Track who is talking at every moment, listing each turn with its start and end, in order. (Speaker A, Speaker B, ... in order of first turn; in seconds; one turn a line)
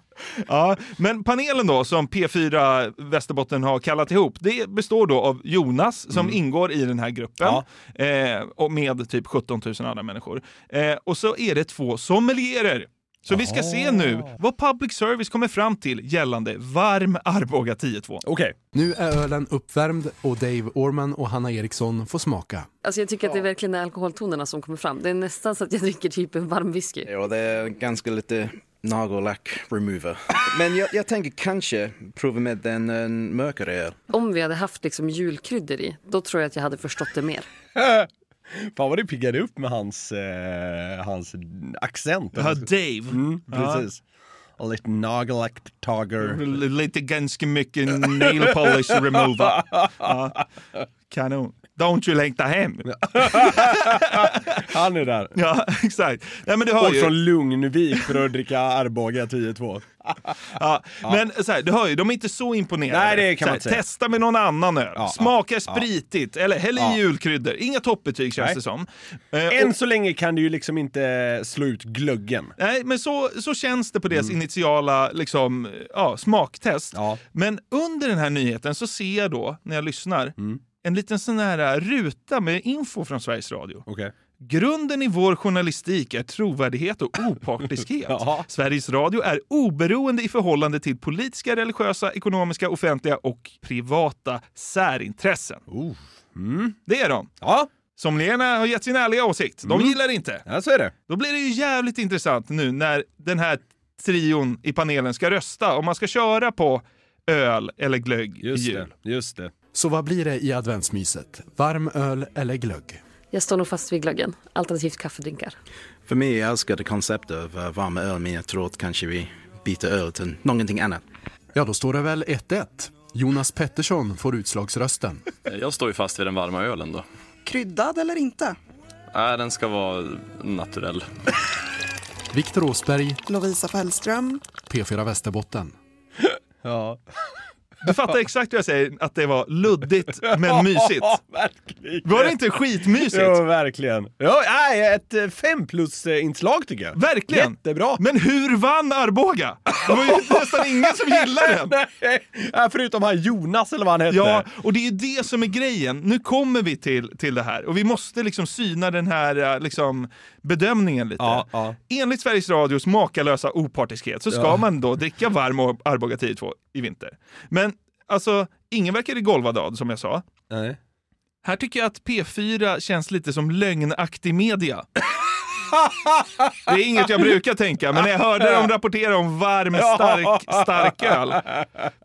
Speaker A: 0.3-18.2
Speaker B: 7.4-7.7
Speaker B: 13.3-14.3
Speaker B: 18.2-18.5
Speaker C: 18.7-22.7
Speaker D: 22.8-27.1
Speaker E: 27.1-34.0
Speaker D: 34.1-37.5
Speaker B: 37.8-44.0
Speaker A: 42.3-43.9
Speaker B: 44.6-46.4
Speaker A: 46.2-50.4
Speaker B: 48.6-50.1
Speaker A: 51.1-54.6
Speaker B: 52.9-55.3
Speaker A: 55.3-57.2
Speaker B: 56.8-60.3
Speaker A: 60.4-69.7
Speaker B: 62.9-63.8
Speaker B: 65.0-65.8
Speaker B: 69.5-72.5
Speaker A: 72.6-83.8
Speaker B: 76.9-77.2
Speaker B: 83.9-84.1
Speaker A: 84.4-95.6
Speaker B: 88.1-88.5
Speaker B: 95.7-96.8
Speaker A: 96.8-97.3
Speaker B: 97.4-97.7
Speaker A: 98.0-100.4
Speaker B: 99.6-100.9
Speaker A: 101.1-108.9
Speaker B: 108.4-109.5
Speaker C: 109.7-113.0
Speaker D: 113.3-115.5
Speaker E: 116.1-121.0
Speaker C: 121.5-125.3
Speaker F: 125.5-127.0
Speaker G: 127.5-128.6
Speaker F: 129.1-131.1
Speaker C: 132.3-133.2
Speaker G: 133.2-134.4
Speaker C: 134.6-135.7
Speaker B: 136.2-137.0
Speaker A: 137.8-141.2
Speaker B: 140.2-142.4
Speaker A: 142.0-143.4
Speaker B: 143.0-148.0
Speaker A: 146.9-151.8
Speaker B: 149.7-154.4
Speaker A: 154.1-170.2
Speaker B: 161.2-161.8
Speaker B: 164.3-164.6
Speaker B: 170.5-170.8
Speaker A: 171.4-174.9
Speaker B: 175.8-176.5
Speaker A: 176.7-181.4
Speaker B: 179.7-181.6